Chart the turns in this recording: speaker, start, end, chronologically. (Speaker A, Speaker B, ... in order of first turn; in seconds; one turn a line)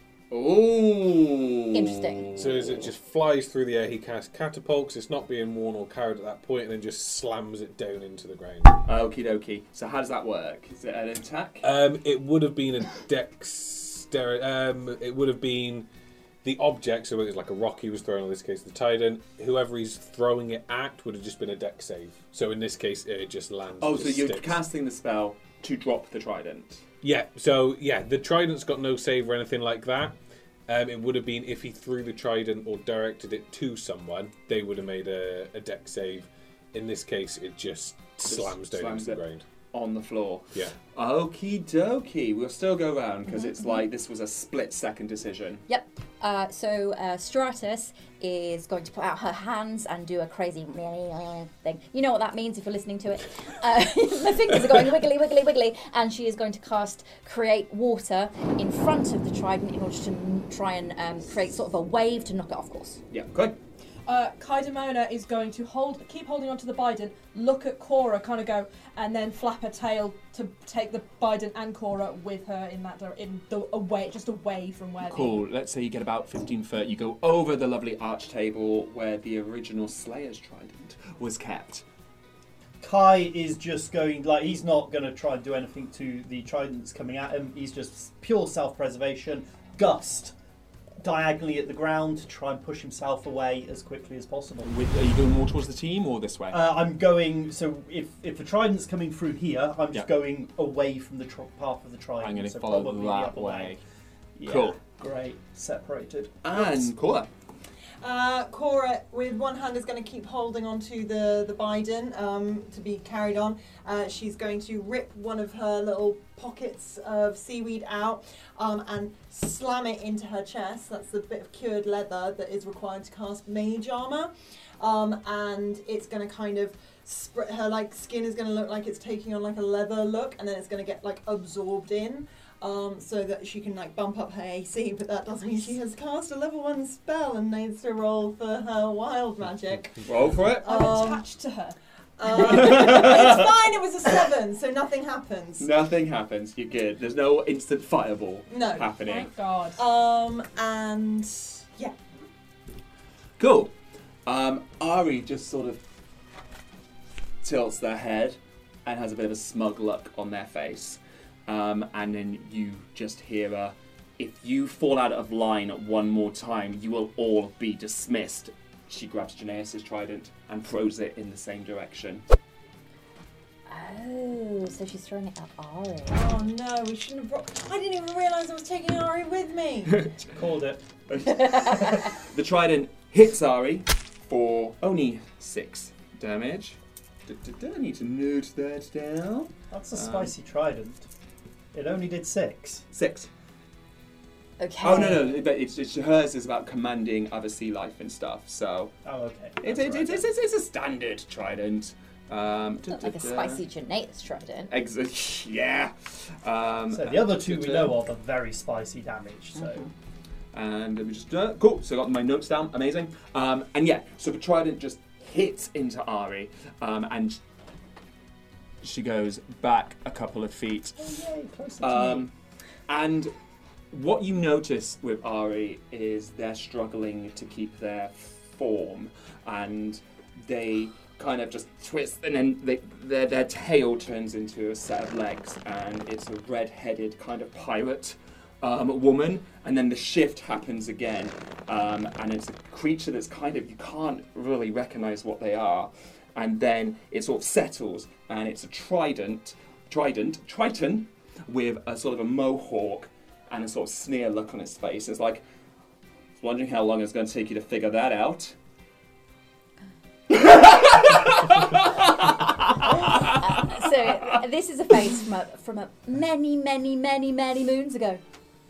Speaker A: 0.3-2.9
Speaker B: 1.7-2.3
Speaker C: 2.3-8.8
Speaker A: 8.8-11.7
Speaker C: 11.6-15.9
Speaker C: 16.4-24.6
Speaker A: 23.8-26.8
Speaker C: 27.0-30.1
Speaker C: 30.7-39.4
Speaker A: 38.3-45.6
Speaker B: 45.7-63.0
Speaker A: 63.1-63.6
Speaker D: 64.0-75.4
Speaker A: 75.0-81.8
Speaker E: 82.8-90.3
Speaker E: 91.0-94.7
Speaker A: 94.6-96.6
Speaker E: 96.5-103.8
Speaker A: 102.2-103.8
Speaker E: 104.4-106.9
Speaker A: 104.5-104.8
Speaker A: 106.4-107.3
Speaker F: 108.0-141.2
Speaker A: 140.1-140.7
Speaker D: 140.6-141.8
Speaker F: 142.2-145.7
Speaker A: 142.3-143.6
Speaker A: 145.6-149.3
Speaker F: 148.5-148.9
Speaker D: 148.9-149.8
Speaker F: 149.8-151.9
Speaker A: 153.4-153.7
Speaker A: 154.2-155.8
Speaker A: 157.4-172.2
Speaker B: 173.7-176.3
Speaker F: 176.1-180.0
Speaker E: 180.3-180.8
Speaker A: 181.1-190.3
Speaker E: 189.7-191.1
Speaker E: 191.7-192.8
Speaker A: 192.9-193.3
Speaker B: 194.6-195.4
Speaker A: 194.8-198.9
Speaker E: 199.0-200.3
Speaker A: 199.6-203.6
Speaker B: 202.9-204.7
Speaker A: 204.7-207.9
Speaker E: 206.9-209.9
Speaker A: 210.5-217.4
Speaker A: 218.8-221.1
Speaker E: 221.0-222.3
Speaker A: 221.8-222.3
Speaker A: 222.9-223.3
Speaker A: 223.9-255.4
Speaker A: 256.4-258.5
Speaker A: 260.3-264.3
Speaker B: 262.8-268.2